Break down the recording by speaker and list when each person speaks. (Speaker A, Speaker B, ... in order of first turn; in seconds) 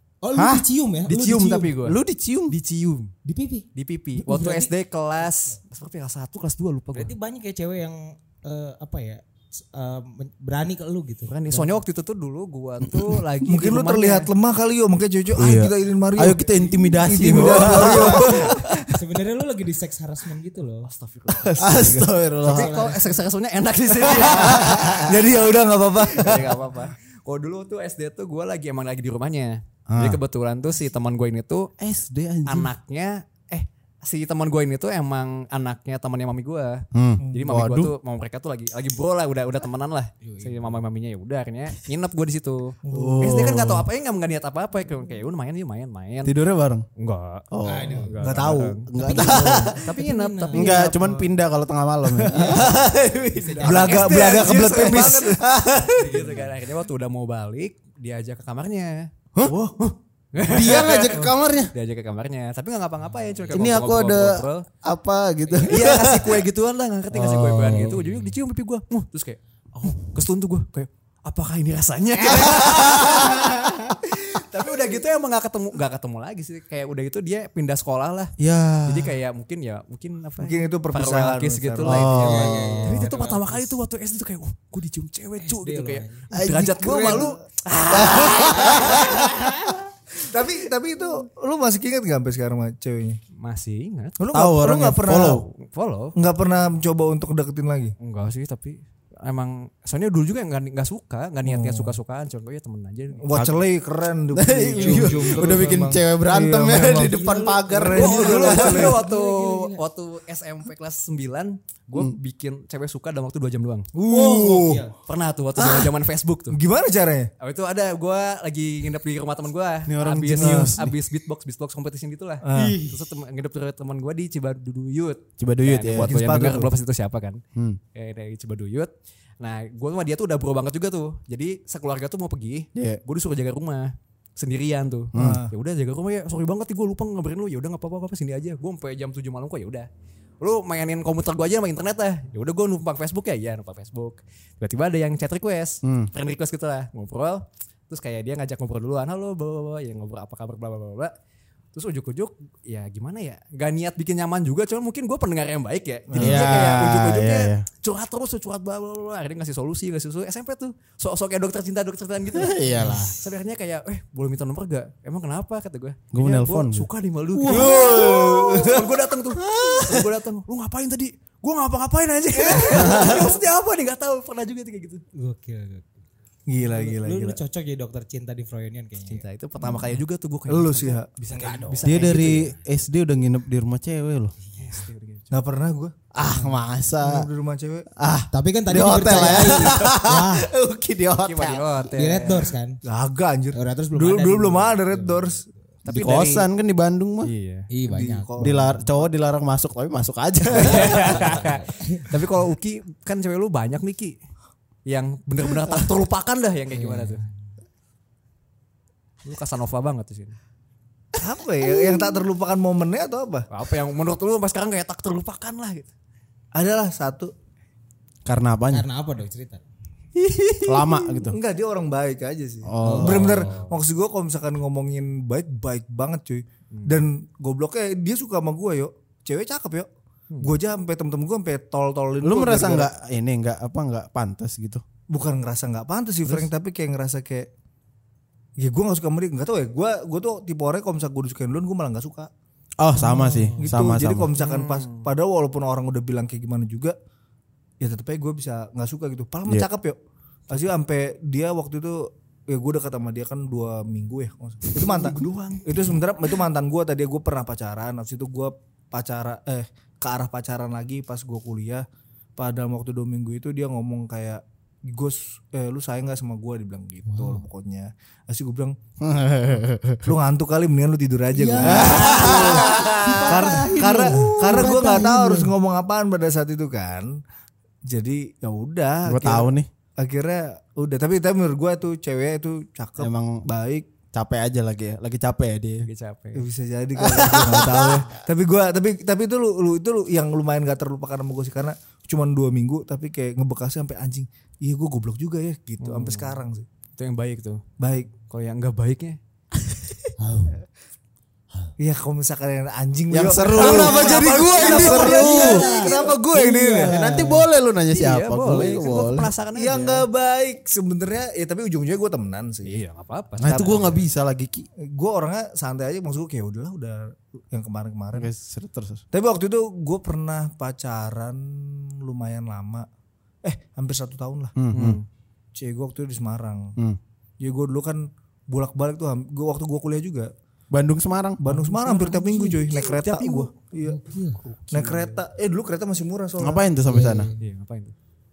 Speaker A: 0.2-1.8, 3.2-5.5, 6.9-11.8, 17.6-20.9, 22.5-23.2, 40.2-40.7, 47.6-48.2, 49.0-51.3, 52.3-54.0, 82.2-83.7, 85.4-86.3, 88.8-89.8, 104.8-105.4, 107.0-109.8, 114.1-115.0, 122.5-123.1, 162.8-163.1, 167.4-168.7, 172.4-173.2, 175.2-175.9, 176.6-179.2, 181.3-182.0, 186.3-186.6, 188.3-190.5, 191.9-192.8, 193.5-195.5, 197.7-198.8, 200.6-202.2, 206.7-207.3, 218.7-219.6, 222.8-223.3, 243.0-243.6, 267.1-267.4, 271.3-275.5, 300.2-300.6, 303.6-307.5, 331.5-332.7, 333.8-334.4, 336.9-337.4
Speaker B: 0.3-0.7, 1.8-2.5, 15.3-18.8, 21.6-22.8, 24.4-25.1, 29.9-30.2, 31.8-32.7, 36.9-37.9, 42.9-43.9, 46.2-46.9, 47.5-48.1, 48.9-49.8, 50.5-56.4, 59.4-59.8, 60.4-61.7, 63.5-66.4, 67.1-68.2, 72.2-73.5, 78.4-79.1, 81.8-83.0, 86.3-87.2, 87.9-89.5, 94.3-95.5, 104.3-108.9, 119.9-120.9, 125.4-126.2, 132.8-133.0, 135.2-135.4, 145.8-146.1, 156.1-157.7, 162.3-163.1, 166.1-166.9, 167.5-168.3, 169.4-170.1, 172.7-173.3, 181.8-184.3, 186.1-187.3, 188.0-191.7, 195.9-197.3, 198.4-201.5, 218.3-218.9, 220.6-221.4, 222.6-223.5, 232.2-234.8, 242.8-244.3, 269.0-270.1, 271.6-274.7, 279.1-279.7, 283.0-283.4, 284.1-285.9, 287.0-288.1, 303.1-305.9, 306.9-309.3, 313.4-314.7, 318.1-319.0, 324.6-325.0, 330.7-331.4, 336.4-337.3
Speaker C: 1.1-3.1, 3.8-7.1, 11.3-14.3, 20.8-21.8, 22.5-25.3, 26.0-31.7, 32.5-46.3, 47.0-51.1, 53.4-55.4, 56.0-59.1, 59.8-64.7, 65.6-78.3, 78.9-89.3, 93.4-94.2, 95.5-96.2, 98.0-103.4, 107.9-113.9, 115.1-116.6, 117.4-127.4, 127.9-139.9, 140.4-151.1, 151.7-175.0, 179.1-182.5, 184.5-185.3, 191.2-192.5, 195.8-196.5, 197.2-197.7, 200.6-204.2, 204.9-207.2, 209.2-210.4, 213.5-215.9, 223.1-223.8, 226.7-227.0, 244.4-245.1, 254.7-255.9, 271.9-273.4, 285.8-286.5, 295.8-296.4, 297.0-297.6, 298.3-299.2, 303.7-304.0, 307.9-310.0, 312.7-314.0, 324.7-325.1, 332.7-333.5, 334.4-335.2, 337.4-337.9
Speaker D: 13.4-18.6, 21.3-22.6, 24.0-26.7, 42.9-43.4, 48.2-49.6, 52.2-52.6, 53.6-55.5, 80.4-82.9, 86.6-87.4, 90.2-93.2, 94.2-95.4, 96.2-98.0, 101.5-102.0, 103.2-109.0, 114.0-114.8, 116.5-117.3, 120.4-120.7, 122.4-122.8, 126.0-126.7, 135.2-135.5, 156.1-156.7, 167.5-168.8, 176.5-177.4, 180.5-181.2, 185.3-185.9, 187.0-187.9, 192.8-195.4, 197.9-198.8, 211.2-213.5, 216.5-217.3, 221.1-229.9, 230.4-232.9, 235.1-237.5, 238.6-242.3, 243.6-247.0, 247.8-250.0, 250.5-261.9, 262.4-268.8, 270.1-277.2, 277.9-283.9, 286.4-296.7, 297.8-298.1, 301.8-307.0, 309.6-312.8, 314.8-318.3, 319.1-322.9, 323.4-324.6, 325.6-326.8, 327.4-330.3, 331.4-334.0, 334.7-336.6